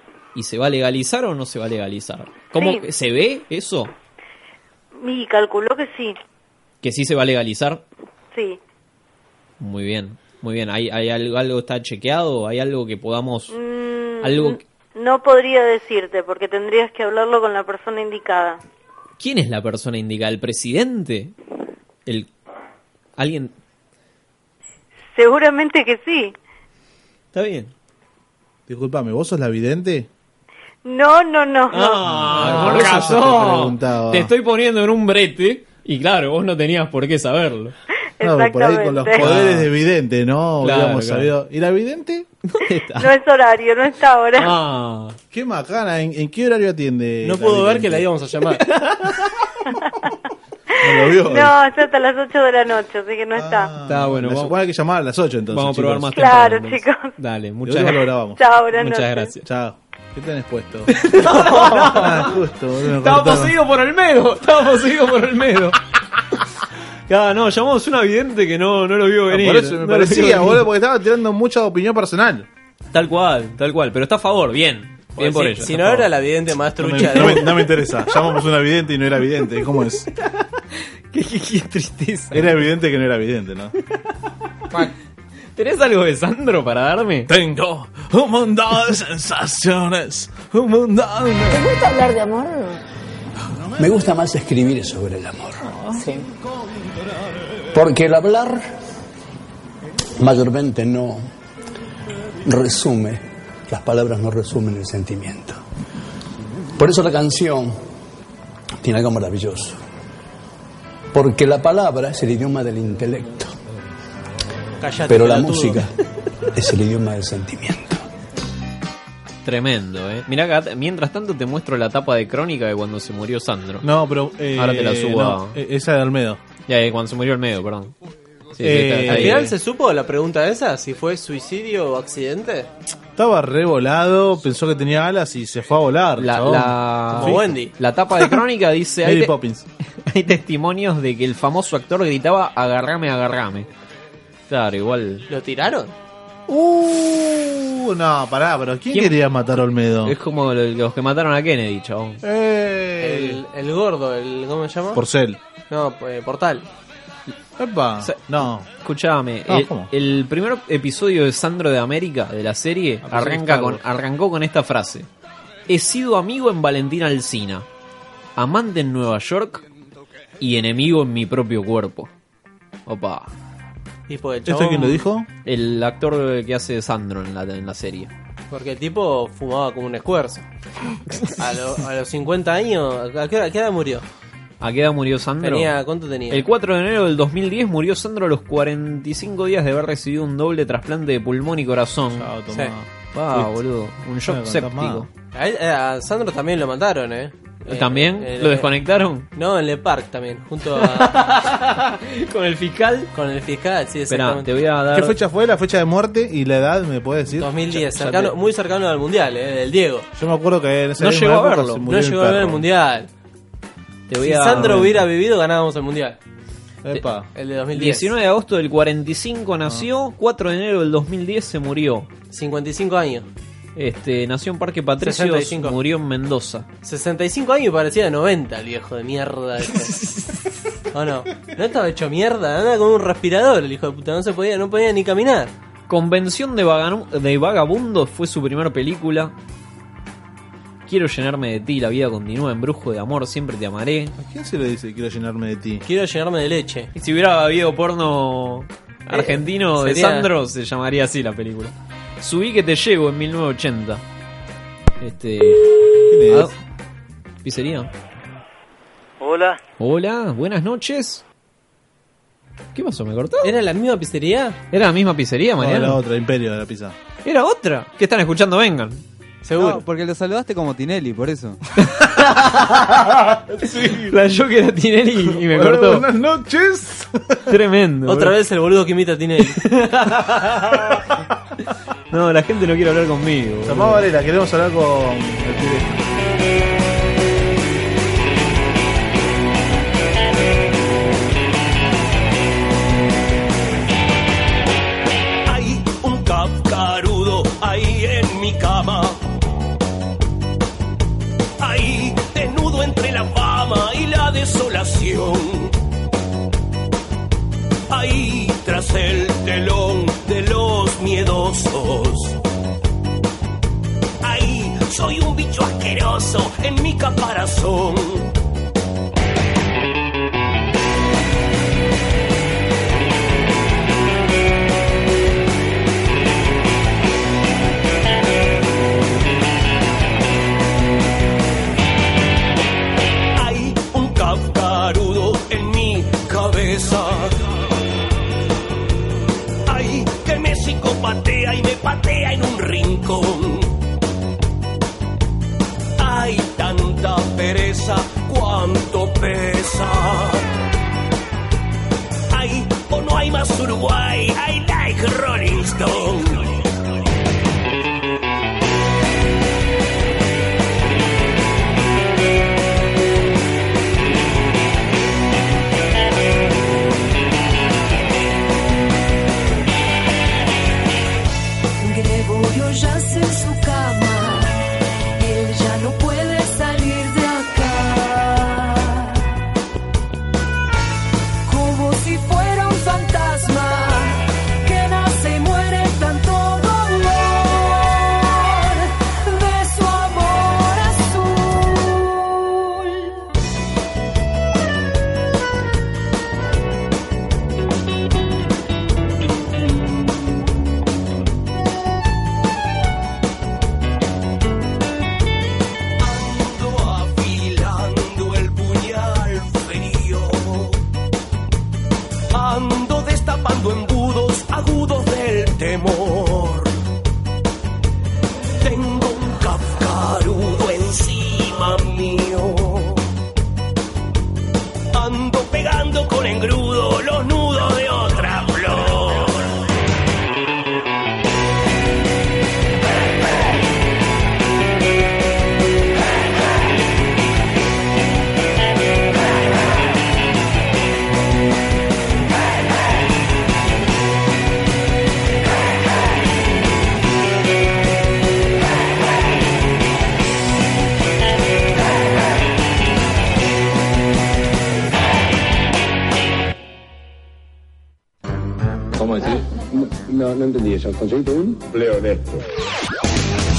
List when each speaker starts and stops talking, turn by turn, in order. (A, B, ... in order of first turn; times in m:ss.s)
0:00.4-0:03.9 A
0:02.6-0:02.8 B
0:05.0-0:06.2 B
0:06.8-0:07.8 A
0:08.3-0:08.6 B
0:09.6-0:13.5 A
0:13.5-0:18.6 B
0:14.2-0:14.6 A
0:19.2-0:21.4 A
0:23.2-0:23.5 A
0:25.2-0:26.3 B
0:27.3-0:27.7 A
0:28.7-0:30.1 C
0:30.8-0:32.0 B
0:31.7-0:37.7 A
0:32.0-0:34.3 C
0:38.2-0:39.3 B
0:38.2-0:42.3 C
0:39.1-0:39.7 A
0:40.6-0:41.3 A
0:42.5-0:43.1 A
0:43.0-0:44.5 B
0:44.4-0:45.2 A
0:45.3-0:48.1 C
0:47.2-0:48.6 D
0:48.7-0:49.2 A
0:50.8-0:51.5 C
0:50.9-0:53.7 B
0:53.4-0:56.1 C
0:53.9-0:54.6 A
0:55.5-0:58.0 A
0:56.1-0:57.1 B
0:57.6-0:58.4 C
0:58.4-0:59.3 B
0:58.8-0:59.4 A
0:59.4-1:03.6 C
1:00.9-1:02.3 A
1:03.0-1:05.8 A
1:07.1-1:10.6 A
1:09.3-1:12.5 C
1:12.9-1:15.8 A
1:15.2-1:17.6 D
1:15.7-1:16.1 C
1:16.8-1:20.1 C
1:17.0-1:17.5 A
1:21.1-1:22.6 A
1:22.3-1:23.7 C
1:25.6-1:27.3 A
1:27.3-1:31.7 C
1:31.5-1:32.8 E
1:33.8-1:35.7 F
1:35.9-1:36.3 E
1:37.7-1:38.7 F
1:40.2-1:41.3 F
1:42.4-1:45.6 F
1:46.8-1:47.9 F
1:48.8-1:49.8 F
1:51.1-1:53.6 F
1:54.8-1:55.8 D
1:55.1-1:55.9 F
1:56.5-1:58.0 F
1:59.4-2:03.8 A
2:03.8-2:06.4 C
2:04.6-2:05.6 A
2:06.7-2:07.9 A
2:08.6-2:09.5 A
2:08.6-2:09.5 C
2:09.1-2:12.7 D
2:13.2-2:17.5 C
2:16.2-2:19.4 A
2:17.1-2:17.8 D
2:19.0-2:19.7 C
2:20.1-2:23.7 A
2:24.5-2:25.3 A
2:25.3-2:25.9 D
2:26.5-2:30.2 C
2:28.9-2:29.2 A
2:30.0-2:32.2 A
2:32.2-2:33.4 C
2:33.0-2:35.0 D
2:34.9-2:35.4 C
2:35.7-2:36.7 D
2:37.6-2:38.7 C
2:38.0-2:45.1 A
2:39.5-2:39.9 C
2:43.0-2:43.8 C
2:45.7-2:47.7 A
2:48.4-2:49.6 A
2:50.4-2:52.1 A
2:52.9-2:53.3 A
2:54.1-2:55.0 D
2:54.5-2:55.3 C
2:55.4-2:58.1 A
2:58.5-3:00.4 D
3:01.3-3:04.0 D
3:04.6-3:05.7 A
3:05.4-3:06.5 D
3:06.3-3:12.3 A
3:12.1-3:13.6 C
3:13.1-3:15.1 A
3:14.3-3:15.1 C
3:15.3-3:18.7 D
3:17.7-3:19.3 A
3:19.4-3:21.2 D
3:20.8-3:23.1 A
3:23.1-3:24.5 D
3:24.1-3:25.2 A
3:24.9-3:27.5 C
3:27.4-3:30.1 D
3:27.7-3:28.4 A
3:30.2-3:32.6 C
3:31.0-3:31.8 A
3:31.9-3:33.1 D
3:34.1-3:35.0 A
3:34.2-3:36.2 D
3:34.6-3:35.0 C
3:36.8-3:37.3 C
3:37.4-3:38.1 D
3:37.8-3:42.1 A
3:42.3-3:43.3 D
3:43.8-3:46.7 A
3:45.0-3:45.8 D
3:46.8-3:50.0 D
3:50.0-3:50.3 A
3:50.9-3:55.5 D
3:55.9-3:59.3 A
4:00.9-4:04.2 A
4:04.2-4:05.8 C
4:05.8-4:06.9 D
4:07.0-4:14.0 A
4:09.1-4:10.3 D
4:15.0-4:15.7 A
4:16.1-4:16.5 C
4:16.3-4:16.5 A
4:17.4-4:17.9 A
4:19.8-4:21.2 A
4:22.8-4:23.5 A
4:23.4-4:24.6 D
4:24.7-4:26.0 A
4:25.6-4:27.0 C
4:27.2-4:29.0 A
4:29.4-4:29.8 D
4:29.6-4:31.6 G
4:31.8-4:33.0 A
4:33.5-4:34.1 C
4:33.7-4:36.1 A
4:35.2-4:37.4 C
4:37.5-4:38.4 A
4:38.1-4:39.6 D
4:39.6-4:40.6 A
4:42.1-4:44.0 A
4:43.6-4:46.0 C
4:55.5-4:59.0 H
5:01.6-5:05.6 H
5:07.9-5:12.3 H
5:14.2-5:18.2 H
5:33.4-5:37.1 H
5:33.6-5:35.0 E
5:39.7-5:43.3 H
5:46.0-5:50.3 H
5:52.3-5:56.4 H
6:11.8-6:14.6 I
6:15.2-6:19.3 I
6:21.5-6:33.1 I
6:46.0-6:50.7 H
6:52.3-6:56.7 H
6:58.6-7:02.9 H
7:05.0-7:09.1 H
7:39.0-7:42.4 J